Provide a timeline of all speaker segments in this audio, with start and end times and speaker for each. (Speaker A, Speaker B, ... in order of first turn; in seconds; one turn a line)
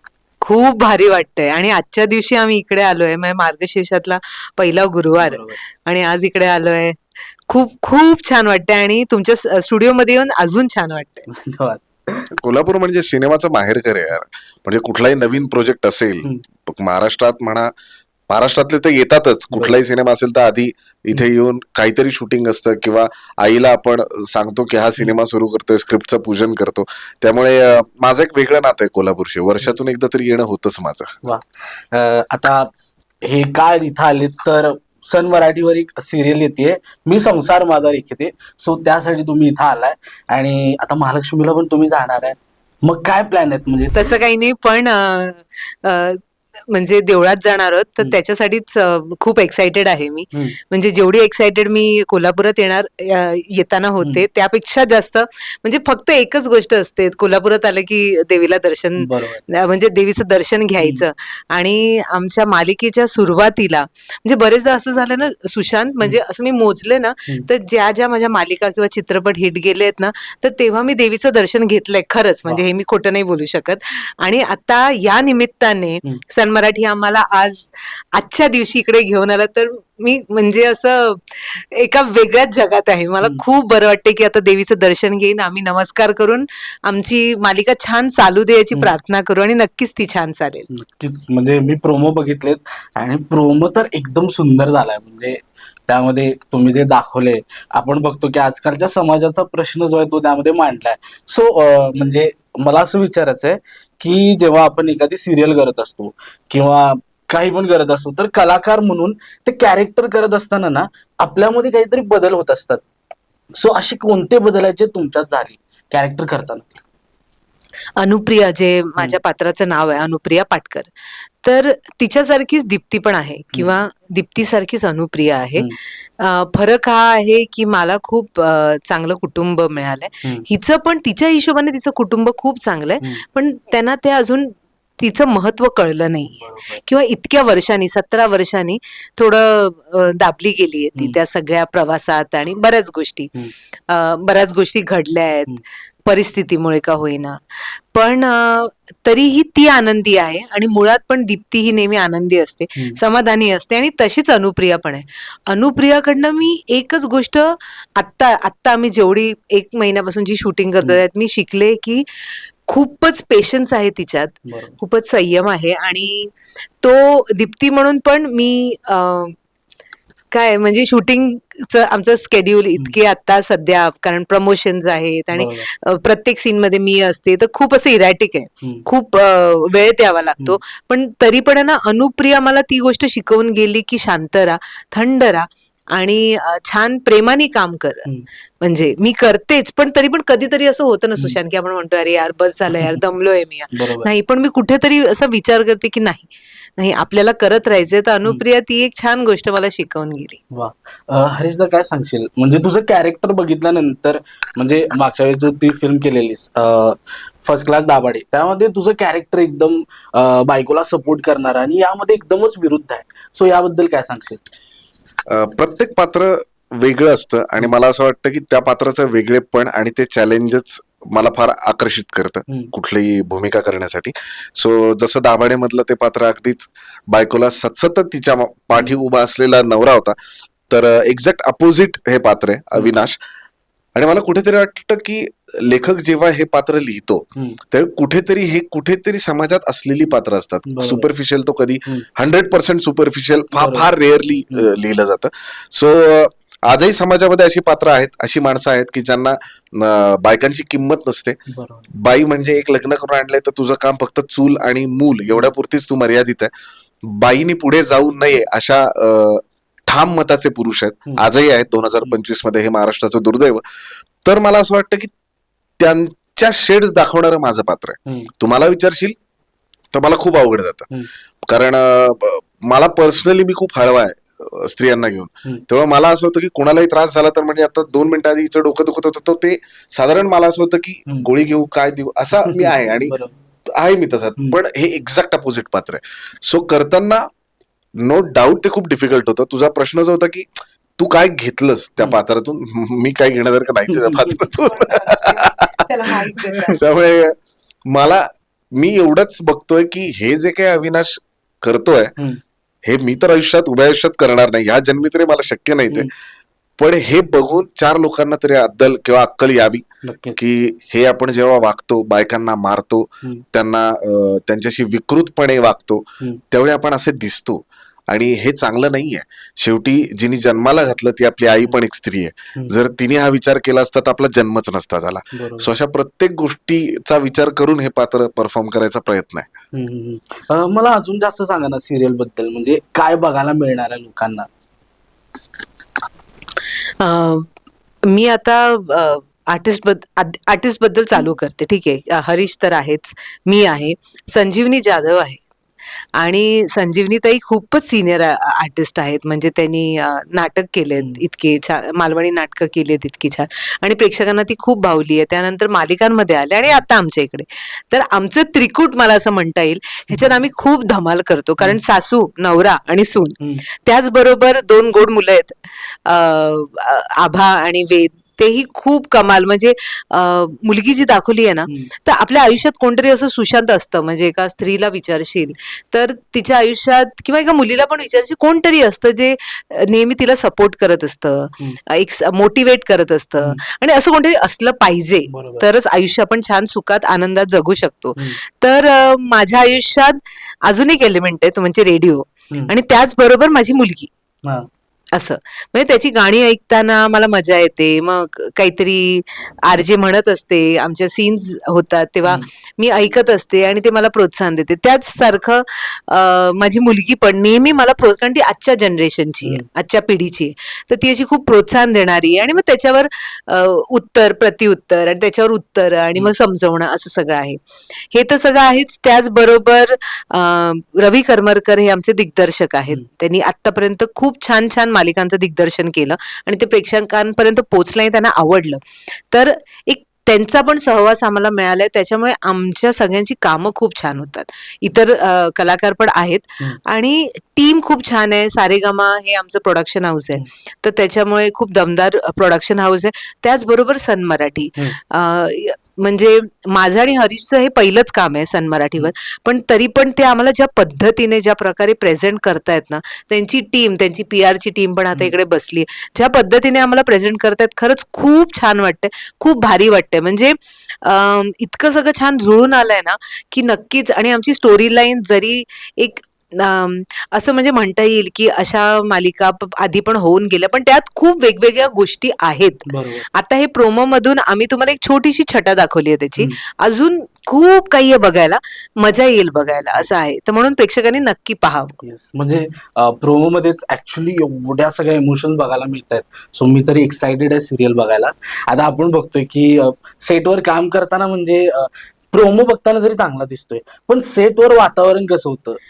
Speaker A: 0.4-7.0
Speaker B: 5.1-5.6
Speaker A: 7.5-11.3
Speaker B: 11.3-12.3
Speaker C: 12.3-17.7
Speaker C: 18.3-31.1
Speaker B: 19.5-19.8
Speaker B: 31.2-44.1
Speaker A: 43.9-90.7
Speaker B: 59.0-59.4
Speaker B: 90.7-112.8
Speaker B: 113.5-116.7
Speaker A: 118.0-120.9
Speaker A: 121.4-143.3
Speaker B: 136.2-136.8
Speaker A: 143.9-169.3
Speaker B: 164.4-164.8
Speaker A: 170.3-188.1
Speaker B: 175.3-175.7
Speaker A: 188.6-200.4
Speaker B: 193.7-194.1
Speaker B: 200.5-214.4
Speaker C: 215.3-233.2
Speaker C: 233.9-251.4
Speaker B: 240.7-241.1
Speaker B: 243.5-243.9
Speaker B: 251.5-251.9
Speaker C: 251.9-256.5
Speaker C: 257.0-263.6
Speaker C: 264.2-265.1
Speaker C: 265.8-269.1
Speaker B: 268.1-268.3
Speaker C: 269.9-270.9
Speaker C: 271.4-283.1
Speaker B: 282.4-283.3
Speaker C: 283.6-287.2
Speaker C: 288.0-297.4
Speaker B: 293.9-294.4
Speaker A: 294.7-296.8
Speaker C: 297.9-302.1
Speaker C: 302.8-306.1
Speaker C: 306.8-329.5
Speaker B: 310.0-310.4
Speaker B: 325.3-325.7
Speaker B: 329.7-334.5
Speaker A: 337.0-337.5
Speaker A: 338.0-345.4
Speaker A: 346.2-394.1
Speaker B: 351.0-351.2
Speaker B: 360.1-360.4
Speaker B: 385.3-385.6
Speaker A: 395.1-482.0
Speaker B: 472.9-473.2
Speaker B: 482.0-495.8